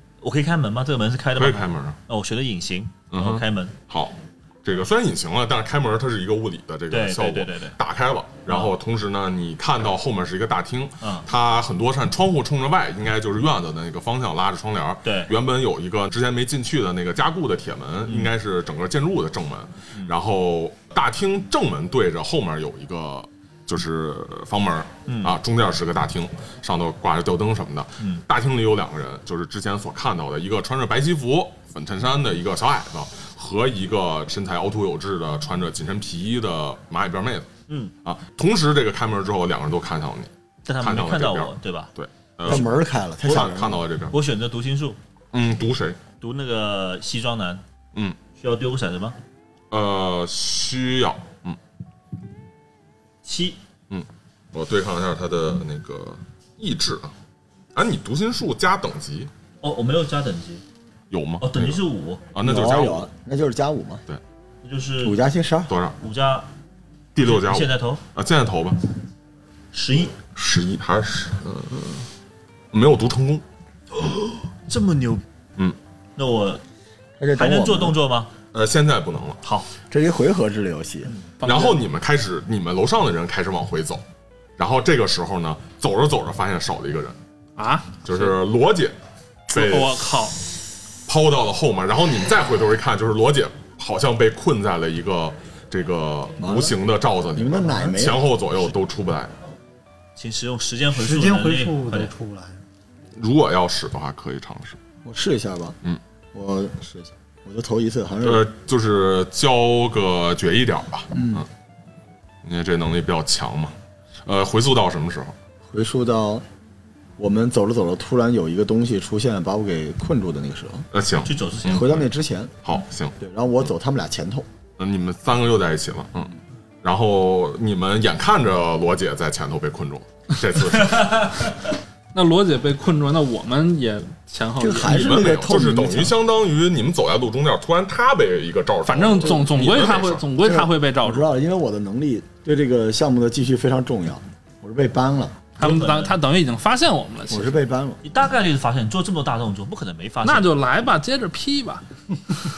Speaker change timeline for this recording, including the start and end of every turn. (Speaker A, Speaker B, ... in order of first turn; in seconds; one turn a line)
Speaker A: 0.2-3.7
Speaker B: 1.4-1.9
Speaker B: 3.1-37.5
Speaker A: 6.9-7.8
Speaker A: 8.5-8.7
Speaker A: 11.0-11.3
Speaker A: 15.0-15.3
Speaker A: 18.0-18.3
Speaker A: 25.1-25.4
Speaker B: 38.0-42.7
Speaker A: 40.6-41.9
Speaker C: 42.4-43.8
Speaker B: 43.2-44.1
Speaker A: 44.1-45.0
Speaker B: 45.3-46.0
Speaker A: 46.2-47.6
Speaker A: 48.4-49.1
Speaker B: 49.7-51.6
Speaker A: 53.2-53.6
Speaker B: 53.9-57.1
Speaker B: 57.7-59.3
Speaker A: 59.6-60.6
Speaker B: 61.1-61.8
Speaker A: 61.4-62.2
Speaker B: 62.3-63.1
Speaker C: 62.4-64.0
Speaker A: 64.6-65.2
Speaker C: 65.0-65.7
Speaker B: 65.7-66.0
Speaker A: 66.0-66.5
Speaker B: 67.1-68.8
Speaker A: 67.2-68.0
Speaker A: 69.7-70.2
Speaker B: 70.3-72.0
Speaker B: 72.7-73.4
Speaker A: 73.9-75.2
Speaker A: 76.2-76.6
Speaker C: 77.2-78.0
Speaker A: 77.3-78.3
Speaker B: 78.5-79.4
Speaker A: 79.4-79.7
Speaker C: 79.9-81.1
Speaker D: 81.4-81.8
Speaker B: 81.4-84.0
Speaker B: 84.6-87.2
Speaker D: 87.6-88.3
Speaker B: 88.0-89.0
Speaker B: 89.5-90.1
Speaker D: 89.5-90.4
Speaker B: 91.1-99.3
Speaker C: 96.4-96.8
Speaker C: 97.3-98.2
Speaker E: 97.6-97.9
Speaker A: 100.2-102.1
Speaker E: 100.9-102.6
Speaker B: 103.2-104.8
Speaker C: 105.0-105.8
Speaker C: 106.3-108.5
Speaker B: 108.2-111.5
Speaker C: 111.1-111.4
Speaker B: 112.4-115.3
Speaker C: 115.7-116.4
Speaker C: 117.2-120.9
Speaker B: 120.9-122.1
Speaker A: 121.2-122.0
Speaker C: 121.7-122.6
Speaker B: 122.6-123.1
Speaker C: 123.2-124.5
Speaker B: 124.8-131.5
Speaker A: 130.9-131.3
Speaker D: 132.1-135.4
Speaker C: 134.6-136.2
Speaker B: 134.8-140.3
Speaker D: 138.8-141.3
Speaker C: 140.4-145.4
Speaker A: 145.6-146.2
Speaker D: 145.6-147.6
Speaker C: 147.3-148.0
Speaker A: 148.0-150.6
Speaker D: 150.2-151.8